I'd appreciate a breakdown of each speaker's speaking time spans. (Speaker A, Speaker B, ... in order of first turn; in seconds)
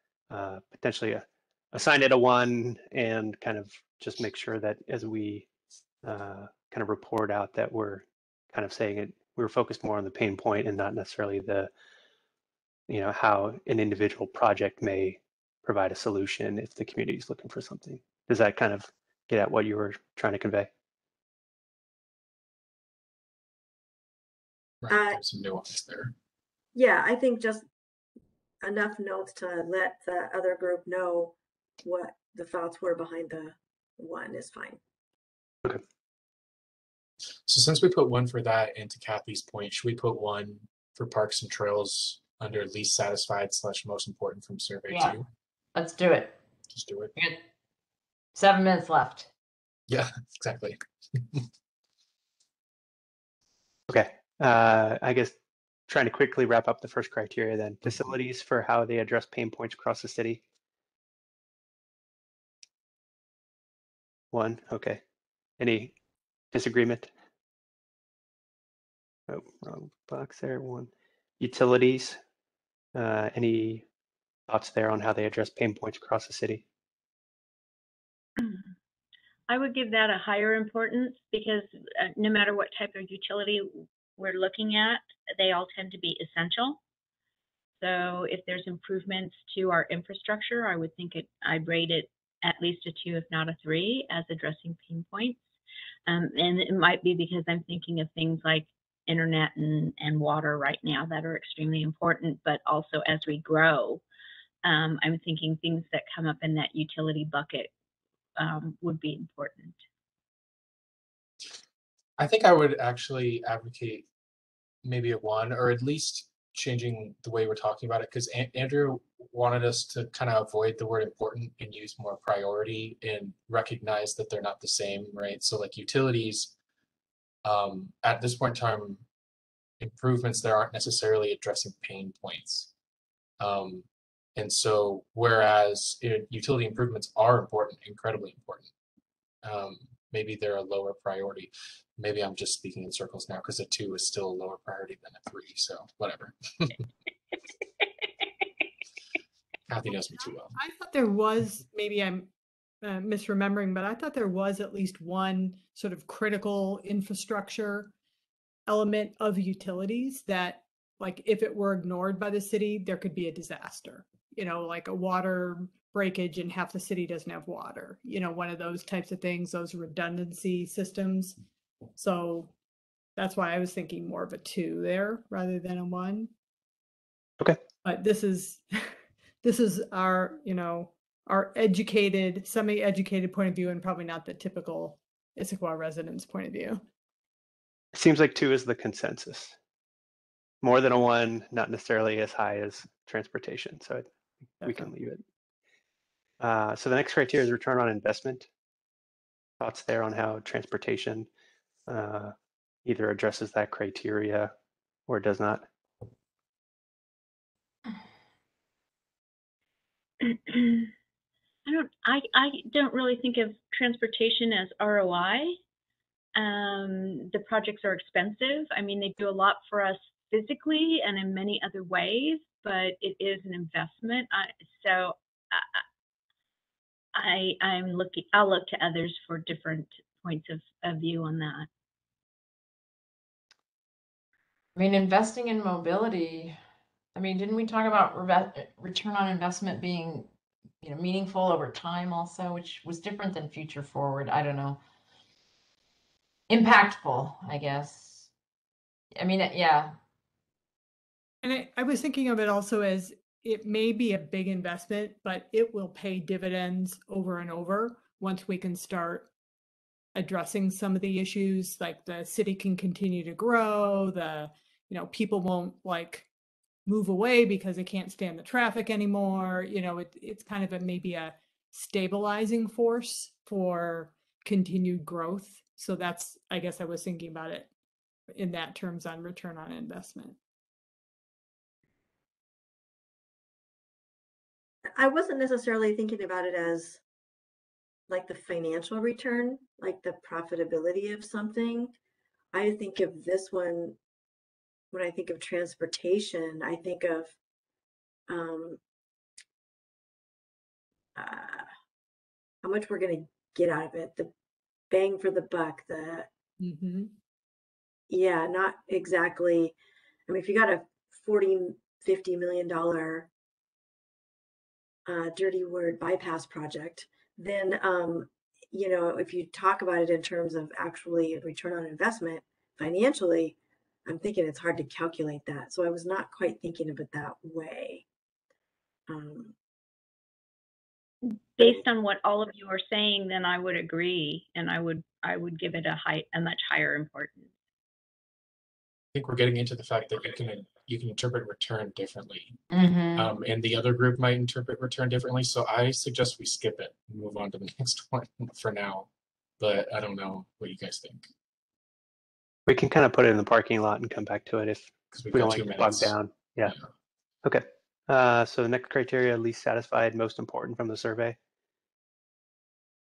Speaker A: 0.3-5.5, 6.0-11.7, 12.9-20.7, 53.9-55.3, 55.9-60.4, 64.3-65.0, 65.6-65.9, 66.5-67.1, 69.3-72.2, 73.0-73.8, 74.5-76.6, 187.9-189.6, 190.6-194.1, 194.6-195.2, 196.4-198.5, 199.6-201.3, 201.9-202.3, 202.8-204.5, 205.1-205.7, 352.7-356.8, 357.4-361.4
Speaker B: 24.8-26.1, 37.5-45.3, 46.7-47.2, 49.9-51.5, 112.2-114.1, 114.8-126.5, 127.5-129.1, 129.8-132.7, 133.4-138.7, 139.4-146.9, 149.7-150.6, 339.1-342.6, 343.2-351.3, 355.1-356.9
Speaker C: 24.9-25.2, 26.8-27.6, 28.6-34.8, 284.9-287.0, 288.1-291.9, 292.5-294.0, 294.9-297.4, 298.3-298.8, 301.2-301.7, 302.6-304.3, 304.9-306.3, 308.1-309.8, 310.3-313.3, 315.1-328.1, 329.1-329.6
Speaker D: 44.9-45.2, 45.8-46.4, 47.1-47.4, 48.4-49.3, 234.8-236.6, 237.2-240.3, 240.8-244.8, 246.5-248.3, 249.2-250.0, 342.7-343.3
Speaker E: 78.4-78.7, 79.5-86.8, 87.8-95.4, 96.1-104.0, 104.6-107.7, 108.4-109.8, 210.2-210.9, 211.7-215.6, 216.3-225.8, 227.2-231.7, 331.6-337.5
Speaker F: 150.6-152.3, 152.8-157.9, 158.7-171.4, 172.0-172.5, 173.2-176.3, 177.8-186.8, 194.6-194.9, 251.4-259.3, 260.1-266.3, 266.9-277.7, 278.3-280.4, 306.6-307.1